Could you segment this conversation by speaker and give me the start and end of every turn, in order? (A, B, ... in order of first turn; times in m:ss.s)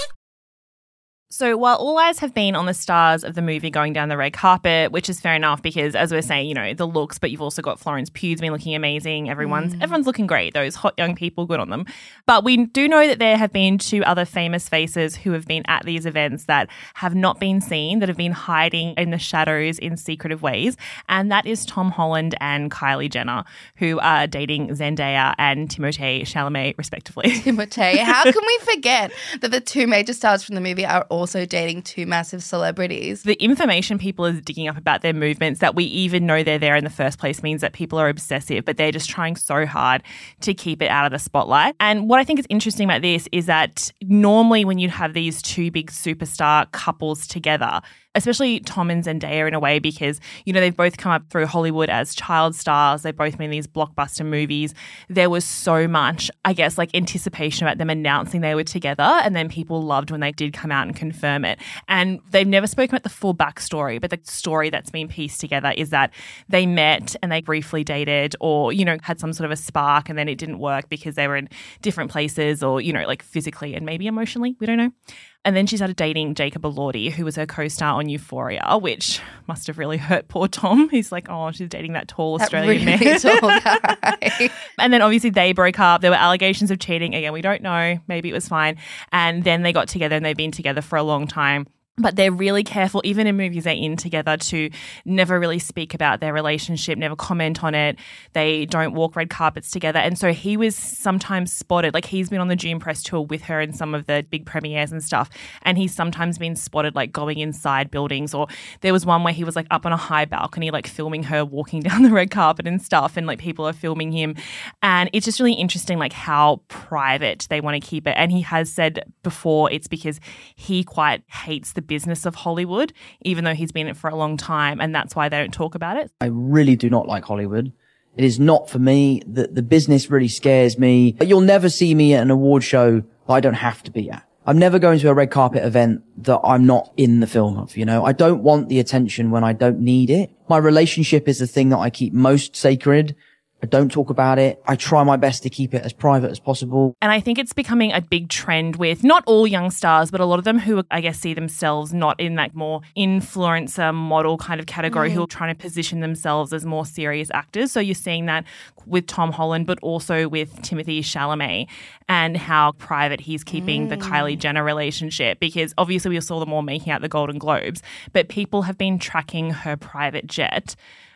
0:01.3-0:27.5 A
0:09.4-0:09.9 B
0:27.4-0:33.2 B
0:28.0-0:28.3 A
0:33.2-1:14.9 A
1:15.4-1:24.0 A
1:22.4-1:24.5 B
1:24.8-2:06.1 A
2:06.2-2:26.9 C
2:27.0-2:50.8 A
2:34.9-2:35.3 B
2:43.5-2:44.4 B